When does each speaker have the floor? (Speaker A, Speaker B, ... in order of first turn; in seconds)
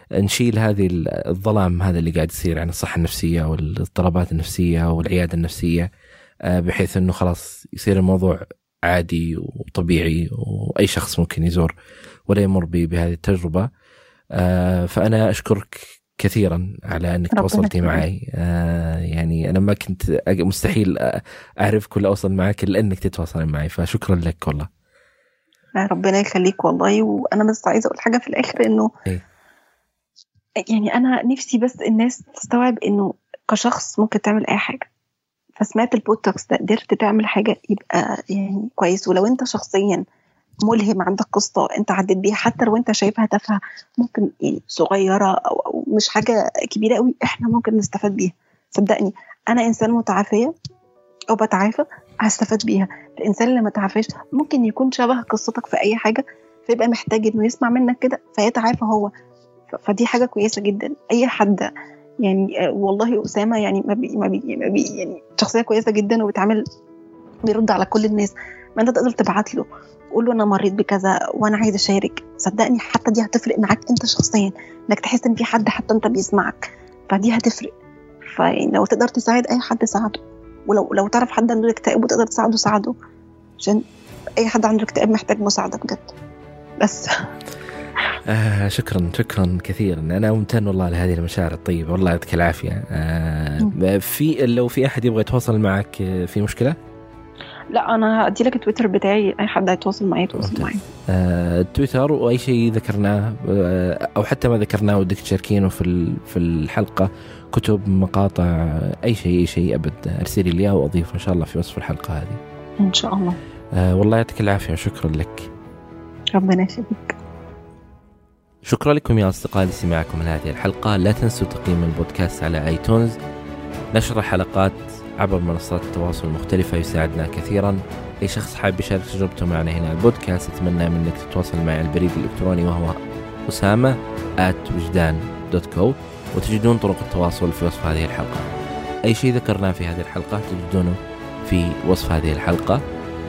Speaker A: 0.2-5.9, 6.5-11.7, 12.3-13.7, 14.3-24.7, 88.2-96.8, 100.3-112.4, 113.7-115.5, 118.6-123.2, 123.9-132.9, 133.5-138.5, 139.1-142.8
Speaker B: 17.3-18.0, 25.8-28.9, 30.7-34.9, 35.6-40.0, 40.6-50.5, 51.3-59.1, 59.7-61.7, 62.2-66.6, 67.5-77.7, 78.3-82.9, 84.4-86.1, 86.8-87.2, 97.7-100.8, 112.8-113.4, 116.3-117.1